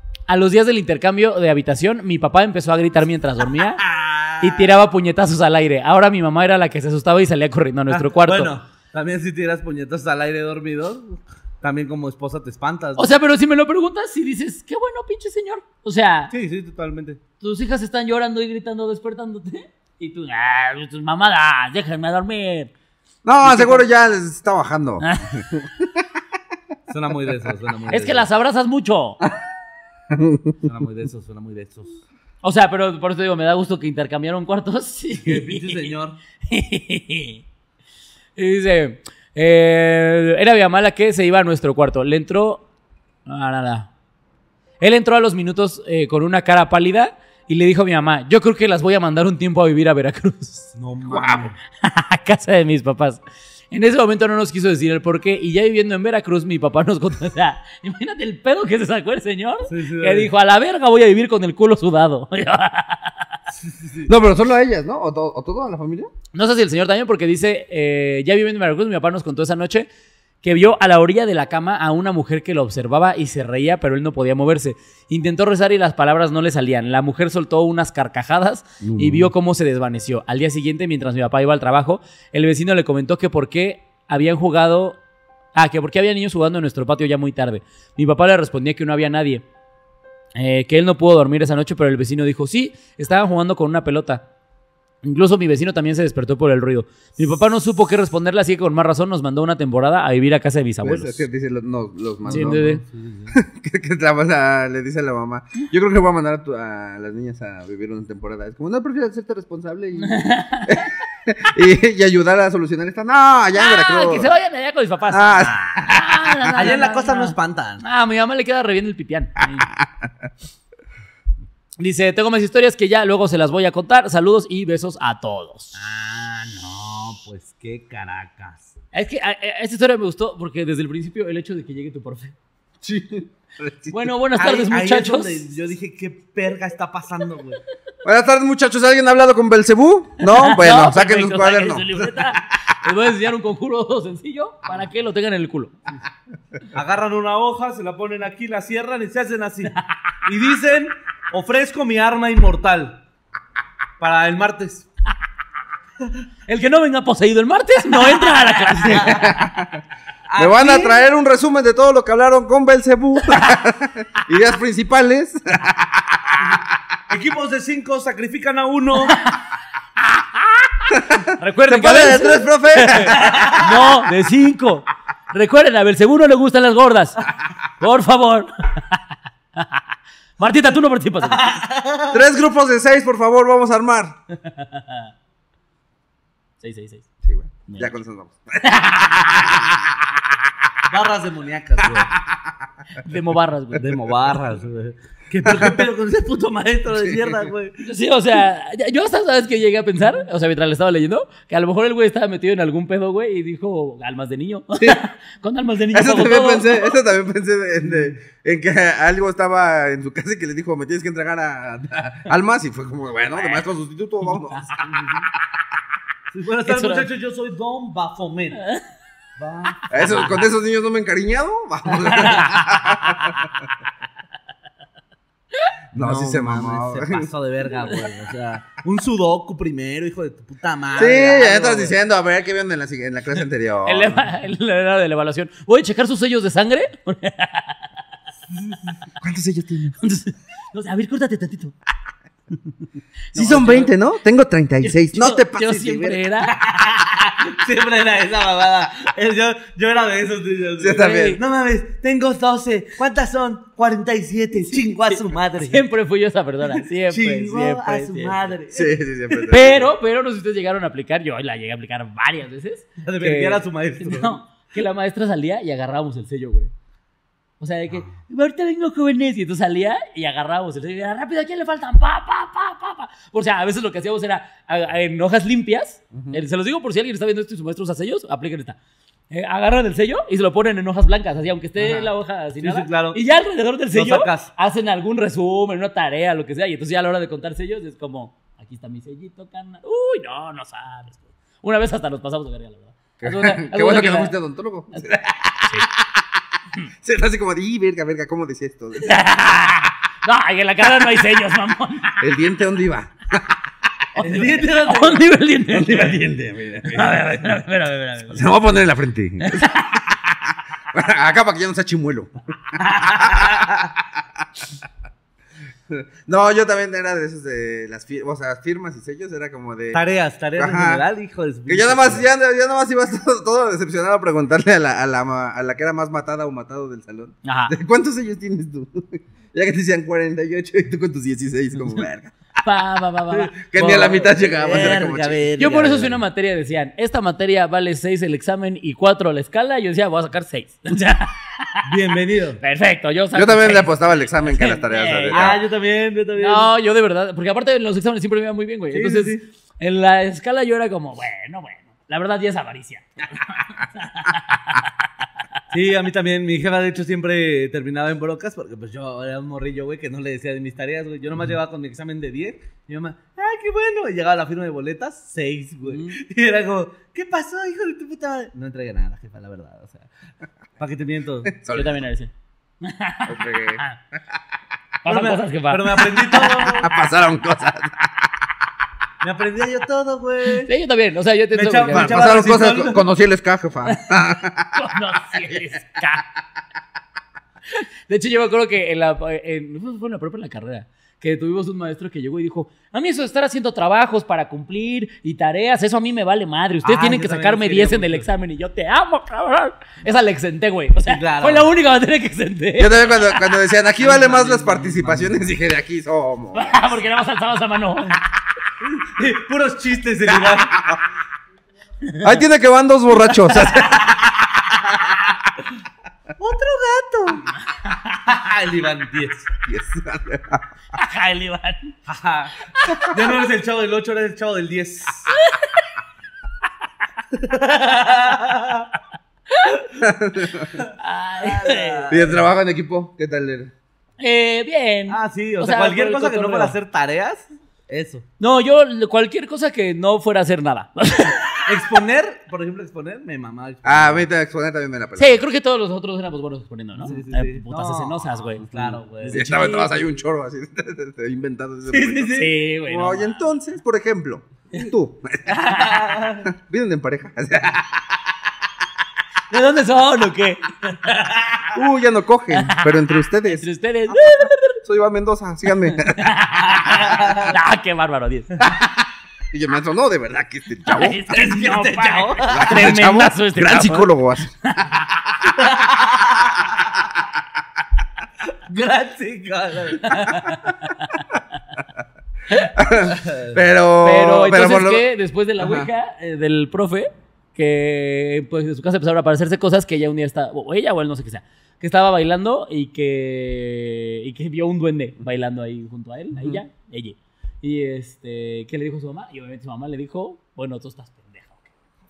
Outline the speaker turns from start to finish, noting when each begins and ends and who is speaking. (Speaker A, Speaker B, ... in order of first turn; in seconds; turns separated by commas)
Speaker A: 0.3-3.8, Speaker B: 3.8-4.7, Speaker A: 4.4-8.5, Speaker B: 7.9-13.1, Speaker A: 13.0-16.3, Speaker B: 16.3-17.2, Speaker A: 17.4-22.7, Speaker C: 23.2-25.9, Speaker B: 23.4-23.8, Speaker A: 25.0-25.3, Speaker B: 26.9-28.3, Speaker A: 27.9-29.2, Speaker C: 30.1-30.6, Speaker B: 30.6-32.0, Speaker A: 32.4-35.9, Speaker B: 35.2-36.2, Speaker A: 36.5-37.4, Speaker A: 38.4-42.6, Speaker A: 43.3-43.9, Speaker A: 44.8-50.7, Speaker B: 50.8-51.6, Speaker C: 51.2-51.4, Speaker A: 51.8-53.2, Speaker A: 53.7-63.3, Speaker B: 59.7-60.3, Speaker B: 63.6-64.1, Speaker C: 64.1-66.1, Speaker A: 66.3-69.9, Speaker A: 70.4-85.0, Speaker C: 78.8-79.3, Speaker A: 85.5-89.4, Speaker A: 90.4-94.2, Speaker A: 95.0-101.2, Speaker C: 100.8-102.7, Speaker B: 102.3-103.4, Speaker A: 102.3-102.8, Speaker C: 103.3-114.3, Speaker A: 110.0-110.9, Speaker A: 113.5-119.7, Speaker C: 115.1-116.2, Speaker B: 116.5-117.8, Speaker C: 119.6-120.3, Speaker A: 121.8-125.7, Speaker B: 125.8-128.8, Speaker A: 128.9-132.3, Speaker C: 132.8-134.1, Speaker A: 133.9-135.5, Speaker B: 134.3-137.6, Speaker C: 138.0-142.3, Speaker A: 140.2-145.8, Speaker B: 146.7-153.0, Speaker B: 154.0-154.9, Speaker A: 156.5-159.4, Speaker B: 158.1-159.2, Speaker C: 158.8-159.8, Speaker B: 160.3-161.0, Speaker C: 160.4-166.2, Speaker B: 167.1-169.2, Speaker A: 169.1-169.4, Speaker A: 170.2-177.2, Speaker C: 171.1-173.6, Speaker B: 173.2-173.7, Speaker A: 177.8-179.0, Speaker A: 180.4-181.6, Speaker B: 181.2-182.2, Speaker C: 182.1-184.2, Speaker A: 184.4-185.1, Speaker A: 186.6-187.1, Speaker C: 187.2-188.9, Speaker A: 187.7-187.9, Speaker A: 188.6-189.8, Speaker B: 190.9-192.1, Speaker C: 192.1-192.6, Speaker A: 193.0-193.9, Speaker B: 193.8-197.8, Speaker A: 197.8-206.9, Speaker C: 205.9-214.8, Speaker B: 214.8-215.3, Speaker B: 216.3-218.6, Speaker A: 216.7-217.1, Speaker B: 219.4-220.4, Speaker C: 219.9-223.4, Speaker A: 222.2-223.3, Speaker C: 225.9-227.3, Speaker B: 226.0-232.0, Speaker C: 231.0-234.3, Speaker A: 233.9-237.8, Speaker C: 239.2-240.0, Speaker A: 240.0-241.7, Speaker A: 243.3-243.9, Speaker C: 243.3-246.2, Speaker A: 244.8-246.6, Speaker B: 246.5-255.8, Speaker C: 250.8-251.4, Speaker A: 251.0-251.4, Speaker A: 255.1-258.5, Speaker B: 256.8-259.0, Speaker C: 258.7-259.9, Speaker A: 259.5-266.7, Speaker B: 263.0-264.4, Speaker A: 267.6-278.8, Speaker C: 276.1-276.4, Speaker A: 279.3-294.4, Speaker C: 281.8-282.1, Speaker B: 282.6-283.2, Speaker B: 283.9-284.5, Speaker C: 293.2-295.3, Speaker A: 294.9-295.9, Speaker C: 297.0-299.2, Speaker A: 299.0-302.3, Speaker C: 302.2-303.5, Speaker B: 304.2-305.4, Speaker A: 304.2-306.2, Speaker C: 305.7-307.5, Speaker A: 306.9-308.5, Speaker C: 308.3-309.7, Speaker A: 309.4-310.1, Speaker C: 310.9-312.3, Speaker B: 312.8-313.9, Speaker C: 313.1-313.5, Speaker C: 315.9-320.0, Speaker B: 319.9-322.3, Speaker C: 320.6-321.0, Speaker C: 321.7-332.3, Speaker A: 327.4-327.7, Speaker A: 332.6-334.3, Speaker B: 333.3-336.1, Speaker C: 333.6-336.2, Speaker A: 335.6-341.9, Speaker B: 341.9-342.6, Speaker A: 342.6-345.5, Speaker C: 343.3-345.6, Speaker B: 345.3-346.7, Speaker A: 346.4-354.8, Speaker B: 348.9-349.4, Speaker B: 355.7-370.1, Speaker A: 365.9-366.2, Speaker B: 370.8-371.5, Speaker C: 371.5-371.9, Speaker A: 371.7-372.3, Speaker A: 372.8-374.0, Speaker C: 373.3-373.8, Speaker A: 375.0-377.0, Speaker B: 375.1-376.9, Speaker C: 376.7-378.1, Speaker B: 379.2-380.7, Speaker A: 380.6-382.4, Speaker B: 381.5-383.0, Speaker C: 381.9-384.8, Speaker A: 383.9-384.2, Speaker A: 384.7-386.3, Speaker A: 387.7-403.4, Speaker B: 396.8-398.3, Speaker B: 401.1-401.7, Speaker C: 402.8-406.8, Speaker B: 404.0-405.6, Speaker A: 406.5-408.3, Speaker B: 408.8-410.8, Speaker A: 412.1-412.4, Speaker C: 412.2-414.1, Speaker B: 416.4-417.5, Speaker B: 418.2-419.5, Speaker C: 419.6-420.6, Speaker A: 420.9-421.9, Speaker B: 422.1-425.3, Speaker A: 425.4-425.9, Speaker B: 427.3-428.9, Speaker A: 429.5-429.8, Speaker C: 430.0-430.7, Speaker B: 430.8-432.4, Speaker A: 431.0-432.1, Speaker C: 432.1-433.7, Speaker A: 434.2-436.8, Speaker B: 435.1-438.2, Speaker A: 438.4-441.7, Speaker B: 441.7-444.3, Speaker C: 443.8-445.4, Speaker A: 445.2-448.7, Speaker B: 447.0-449.4, Speaker C: 448.7-455.7, Speaker A: 449.2-450.0, Speaker B: 451.9-452.5, Speaker A: 452.4-453.4, Speaker B: 455.5-456.5, Speaker C: 456.4-458.0, Speaker A: 459.5-461.3, Speaker C: 461.7-466.4, Speaker A: 462.6-464.8, Speaker A: 466.0-468.6, Speaker B: 466.9-467.5, Speaker C: 469.5-471.2, Speaker A: 470.9-474.1, Speaker B: 471.3-472.9, Speaker C: 472.5-474.5, Speaker A: 474.6-475.4, Speaker B: 475.5-476.9, Speaker B: 478.7-480.5, Speaker A: 480.1-481.1, Speaker C: 482.6-485.1, Speaker B: 483.1-483.6, Speaker A: 484.0-501.7, Speaker C: 485.6-485.9